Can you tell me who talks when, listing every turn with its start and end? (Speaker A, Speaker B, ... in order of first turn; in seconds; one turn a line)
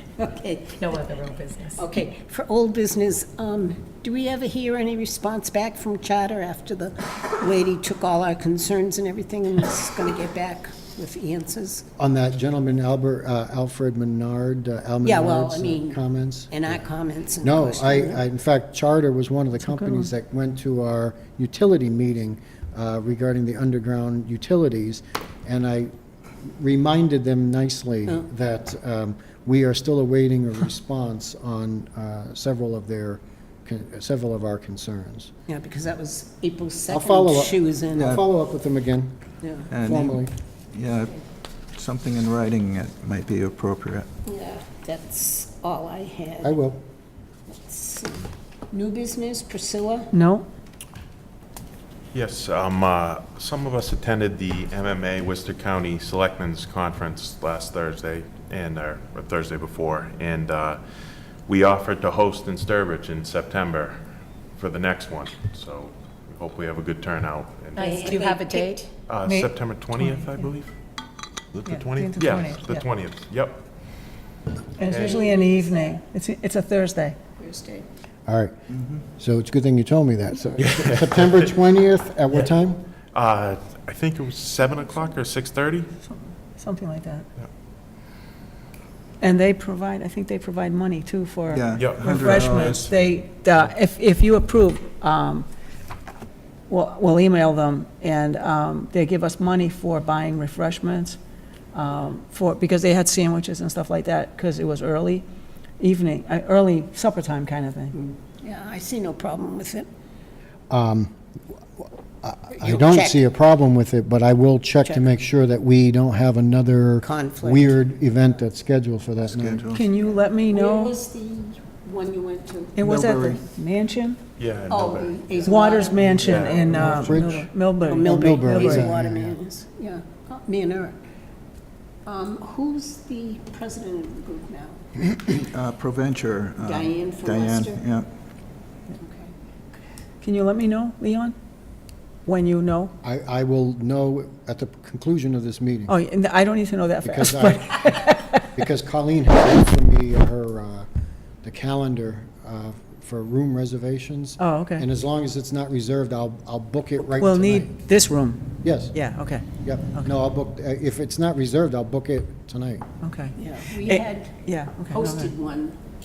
Speaker A: 0.2-1.0
Speaker B: 0.7-2.0
Speaker A: 1.8-11.8
Speaker C: 12.0-16.8
Speaker A: 15.0-18.2
Speaker C: 17.4-25.9
Speaker D: 19.6-20.1
Speaker C: 26.4-35.3
Speaker A: 35.5-38.1
Speaker C: 36.9-39.1
Speaker E: 38.0-38.2
Speaker A: 39.4-39.7
Speaker E: 39.7-41.2
Speaker C: 39.8-40.3
Speaker E: 41.7-44.1
Speaker A: 44.3-46.6
Speaker C: 46.4-46.8
Speaker A: 47.5-50.1
Speaker D: 50.1-50.5
Speaker F: 52.1-60.8
Speaker F: 61.5-68.3
Speaker B: 67.8-68.9
Speaker A: 67.8-68.9
Speaker F: 69.1-70.7
Speaker D: 69.2-70.5
Speaker F: 71.5-73.6
Speaker D: 71.7-72.9
Speaker D: 74.8-77.2
Speaker F: 74.8-75.2
Speaker A: 75.0-76.0
Speaker A: 77.4-77.9
Speaker C: 78.3-78.5
Speaker C: 79.2-82.8
Speaker F: 80.7-81.4
Speaker F: 83.1-85.9
Speaker D: 86.0-87.3
Speaker D: 89.2-95.5
Speaker E: 91.5-92.9
Speaker F: 91.7-92.8
Speaker D: 96.7-101.2
Speaker D: 101.7-105.2
Speaker D: 105.8-108.0
Speaker A: 107.9-109.9
Speaker C: 110.7-111.2
Speaker C: 111.8-119.7
Speaker A: 112.6-113.3
Speaker A: 117.0-117.7
Speaker E: 119.3-119.8
Speaker D: 119.7-121.0
Speaker A: 120.4-122.8
Speaker D: 122.8-124.2
Speaker E: 122.8-123.4
Speaker F: 124.4-126.8
Speaker A: 124.7-126.1
Speaker D: 125.5-128.9
Speaker C: 126.3-127.5
Speaker A: 127.8-131.0
Speaker C: 128.0-129.3
Speaker A: 132.1-134.8
Speaker E: 135.3-138.1
Speaker A: 136.6-137.8
Speaker A: 139.0-139.3
Speaker D: 140.2-141.4
Speaker D: 142.3-142.9
Speaker C: 143.0-145.9
Speaker D: 145.9-148.5
Speaker C: 147.0-147.8
Speaker C: 148.4-150.9
Speaker C: 151.4-157.8
Speaker D: 154.4-154.9
Speaker D: 157.2-160.1
Speaker C: 158.6-159.0
Speaker C: 159.6-162.9
Speaker D: 163.0-165.3
Speaker A: 163.4-165.8